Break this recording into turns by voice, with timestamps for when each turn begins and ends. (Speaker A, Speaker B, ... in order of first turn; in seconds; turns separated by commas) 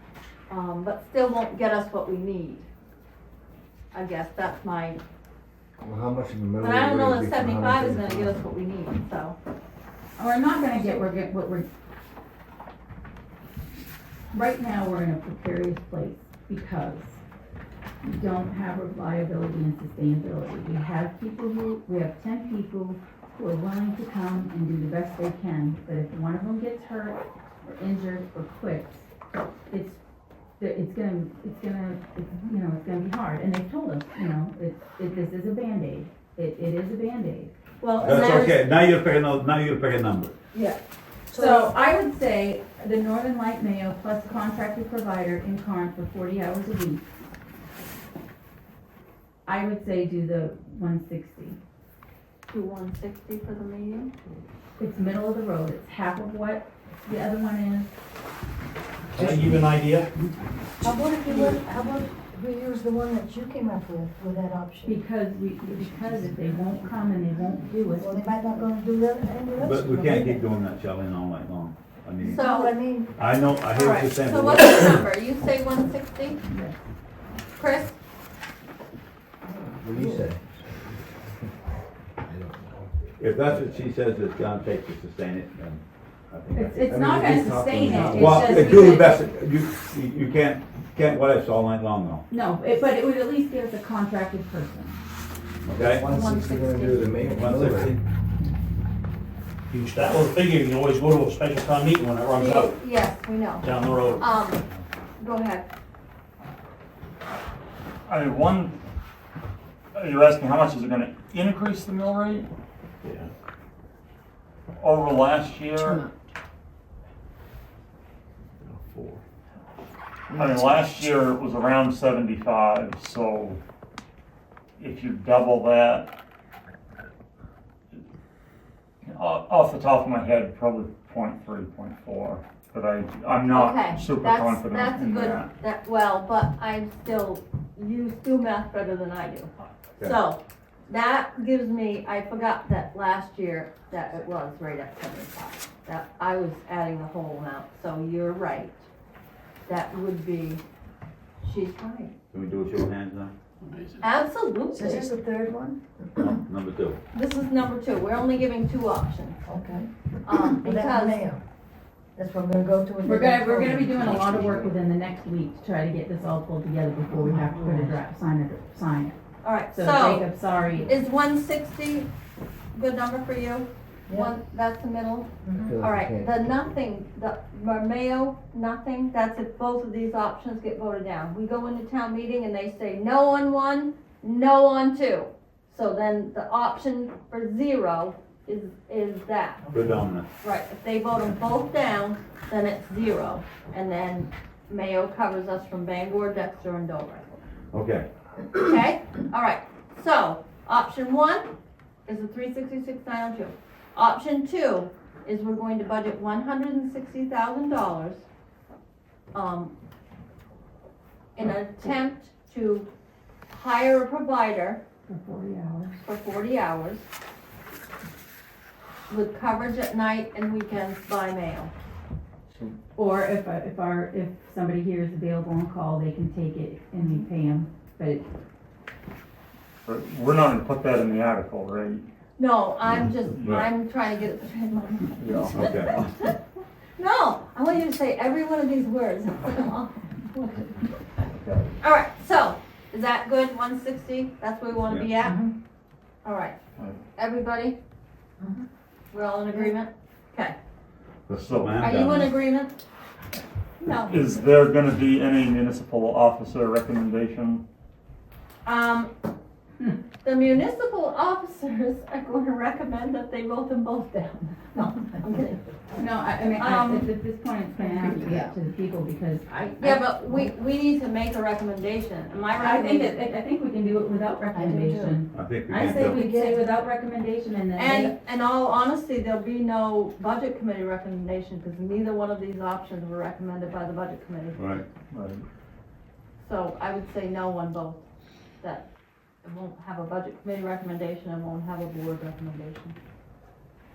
Speaker A: 0.5-2.7, Speaker A: 3.9-5.0, Speaker B: 5.8-8.4, Speaker A: 6.6-9.4, Speaker C: 10.2-11.7, Speaker C: 14.3-17.2, Speaker C: 18.0-29.1, Speaker C: 29.7-30.0, Speaker C: 30.6-37.5, Speaker D: 37.8-38.4, Speaker E: 38.0-40.3, Speaker D: 40.5-40.8, Speaker D: 41.3-41.7, Speaker C: 41.3-47.0, Speaker C: 49.5-51.6, Speaker A: 52.5-54.1, Speaker C: 54.8-57.9, Speaker E: 59.2-60.1, Speaker F: 59.2-59.8, Speaker D: 60.8-64.9, Speaker C: 64.8-68.2, Speaker D: 68.0-70.4, Speaker E: 69.6-72.4, Speaker D: 72.2-73.1, Speaker A: 72.4-72.7, Speaker E: 73.2-75.0, Speaker A: 73.8-76.4, Speaker C: 76.5-76.8, Speaker A: 77.6-78.0, Speaker D: 79.5-80.2, Speaker B: 79.8-80.4, Speaker B: 82.2-82.9, Speaker E: 83.2-86.8, Speaker B: 83.5-83.9, Speaker C: 86.5-89.2, Speaker B: 86.9-88.7, Speaker E: 87.9-92.2, Speaker C: 92.3-95.0, Speaker E: 95.7-96.1, Speaker B: 95.8-97.9, Speaker E: 97.2-98.0, Speaker F: 99.7-104.6, Speaker A: 102.3-104.6, Speaker A: 105.2-105.7, Speaker G: 108.1-108.8, Speaker G: 109.9-112.5, Speaker G: 114.8-116.1, Speaker G: 120.3-123.6, Speaker G: 124.8-126.1, Speaker G: 129.1-135.5, Speaker A: 133.6-139.5, Speaker A: 140.1-148.8, Speaker A: 149.7-150.6, Speaker A: 151.4-152.1, Speaker E: 152.3-153.3, Speaker A: 154.0-155.1, Speaker D: 154.7-156.1, Speaker E: 156.2-157.0, Speaker A: 157.1-159.4, Speaker D: 159.5-159.9, Speaker A: 160.2-161.2, Speaker D: 160.6-161.4, Speaker D: 162.2-164.0, Speaker C: 163.0-169.2, Speaker A: 169.4-170.2, Speaker C: 169.7-171.0, Speaker A: 170.9-172.1, Speaker A: 172.7-189.6, Speaker D: 175.5-175.8, Speaker B: 175.6-176.5, Speaker E: 189.7-190.2, Speaker A: 190.4-197.4, Speaker E: 197.7-198.1, Speaker A: 198.6-201.5, Speaker A: 202.1-208.2, Speaker A: 209.3-209.7, Speaker A: 211.4-212.9, Speaker C: 211.4-211.9, Speaker A: 213.5-214.8, Speaker C: 215.1-216.0, Speaker A: 216.0-217.1, Speaker A: 219.1-221.7, Speaker C: 223.0-228.2, Speaker A: 227.0-227.3, Speaker G: 229.8-232.1, Speaker A: 232.4-236.4, Speaker E: 233.3-233.7, Speaker G: 233.3-233.6, Speaker G: 235.2-235.8, Speaker E: 235.5-235.9, Speaker A: 237.0-240.8, Speaker G: 241.3-241.7, Speaker A: 241.8-245.3, Speaker D: 245.3-245.5, Speaker A: 246.2-246.6, Speaker A: 247.2-247.8, Speaker D: 248.4-248.7, Speaker A: 249.1-250.6, Speaker E: 251.3-252.3, Speaker G: 251.3-252.0, Speaker A: 251.8-252.7, Speaker A: 253.8-254.2, Speaker G: 254.1-257.6, Speaker A: 258.7-259.1, Speaker A: 260.2-265.6, Speaker C: 266.0-270.5, Speaker A: 266.6-267.1, Speaker D: 267.8-268.5, Speaker A: 269.8-273.1, Speaker C: 272.5-278.1, Speaker D: 274.5-275.2, Speaker E: 275.3-276.2, Speaker D: 275.8-276.6, Speaker A: 277.8-284.6, Speaker E: 284.6-284.8, Speaker G: 285.1-285.4, Speaker A: 286.4-288.0, Speaker A: 288.6-288.9, Speaker A: 289.4-293.0